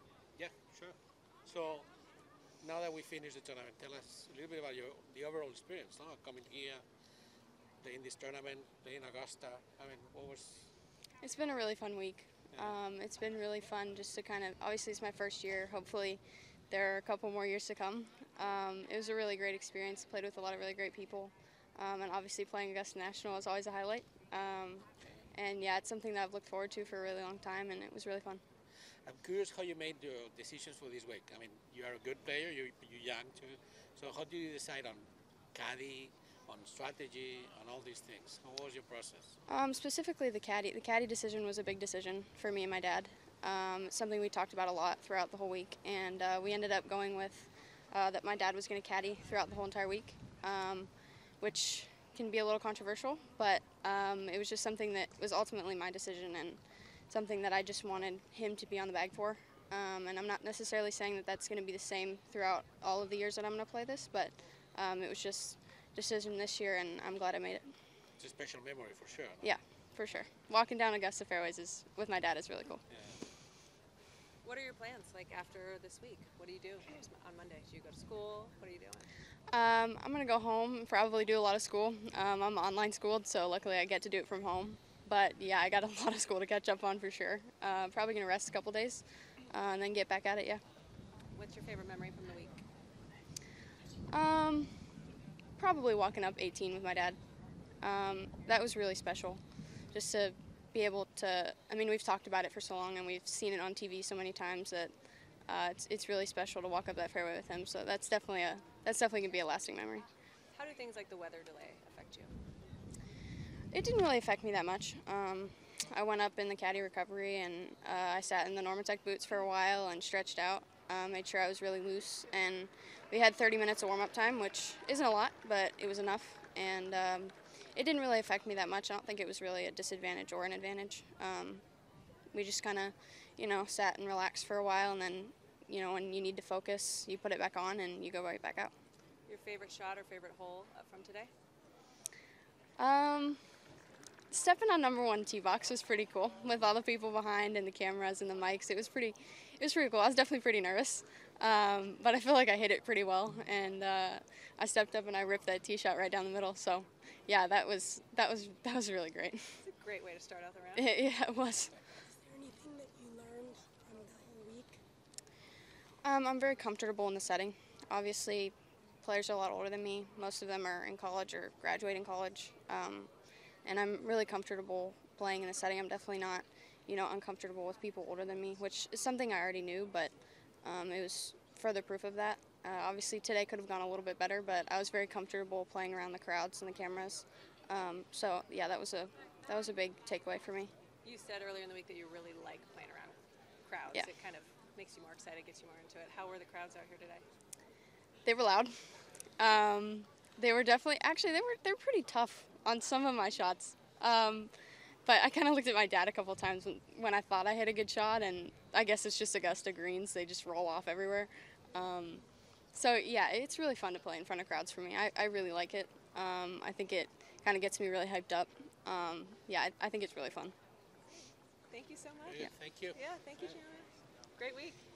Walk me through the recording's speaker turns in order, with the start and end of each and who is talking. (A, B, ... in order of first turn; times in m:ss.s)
0:00.4-0:01.9 A
0:02.6-0:06.8 A
0:07.8-0:10.7 A
0:11.2-0:28.4 B
0:12.5-0:12.8 A
0:29.0-0:39.4 A
0:39.5-1:07.7 B
1:08.2-1:09.5 A
1:09.4-1:12.8 B
1:12.9-1:13.2 A
1:14.4-1:19.1 C
1:19.5-1:30.6 B
1:31.3-1:32.6 C
1:34.1-1:35.0 B
1:35.6-1:37.2 B
1:37.8-1:50.1 B
1:50.5-1:52.3 C
1:53.7-2:11.6 B
2:12.3-2:18.7 B
2:19.3-2:21.3 C
2:22.8-2:23.4 B
2:24.3-2:39.6 B
2:39.6-2:40.9 C
2:40.8-2:41.7 B
2:42.2-2:44.8 D
2:46.0-3:10.7 B
3:11.0-3:17.2 C
3:18.2-3:18.8 B
3:19.4-3:24.5 B
3:25.0-3:40.5 B
3:41.7-3:44.8 C
3:42.2-3:43.4 A